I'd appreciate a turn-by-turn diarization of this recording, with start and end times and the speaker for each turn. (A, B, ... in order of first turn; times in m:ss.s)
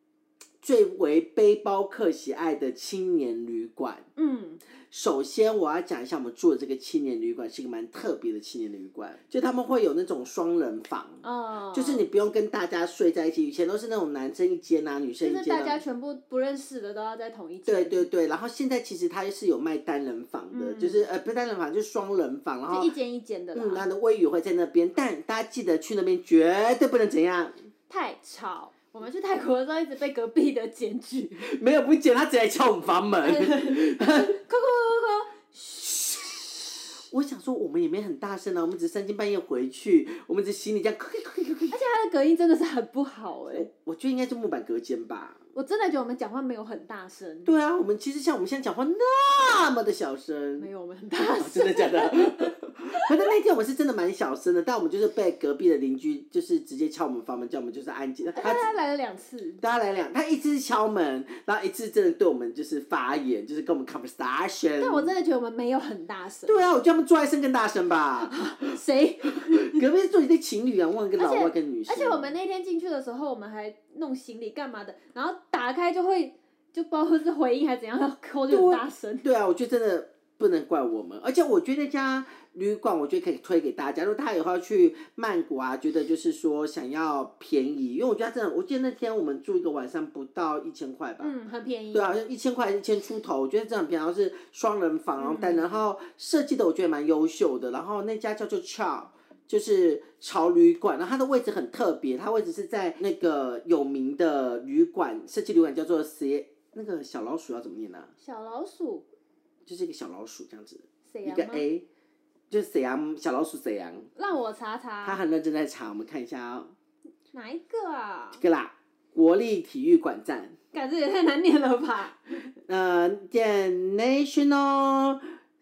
0:00.6-0:04.1 A
0:04.2-0:04.6 B
0:04.9-0:15.8 A
0:11.2-0:12.0 B
0:15.2-0:18.1 B
0:17.6-0:22.9 A
0:20.5-0:21.0 B
0:22.7-0:23.9 B
0:23.5-0:27.7 A
0:27.9-0:31.4 B
0:31.4-0:34.4 A
0:33.2-0:36.1 B
0:36.0-0:41.8 A
0:41.7-0:43.7 B
0:43.5-0:45.4 A
0:45.5-0:47.5 B
0:47.4-0:50.7 A
0:50.6-0:53.1 B
0:51.4-0:58.6 A
0:58.3-0:59.6 B
0:59.6-1:05.1 A
1:04.8-1:06.7 B
1:06.4-1:12.3 A
1:08.2-1:09.8 B
1:11.2-1:19.2 B
1:18.5-1:31.3 A
1:31.2-1:32.3 B
1:31.9-1:48.1 A
1:35.2-1:35.8 B
1:48.2-1:49.0 B
1:49.6-1:51.8 A
1:51.1-1:51.6 B
1:52.5-1:54.1 A
1:54.2-1:55.2 B
1:55.0-1:56.7 A
1:57.3-1:58.4 B
1:58.4-2:00.6 A
2:00.7-2:02.2 B
2:02.7-2:05.3 A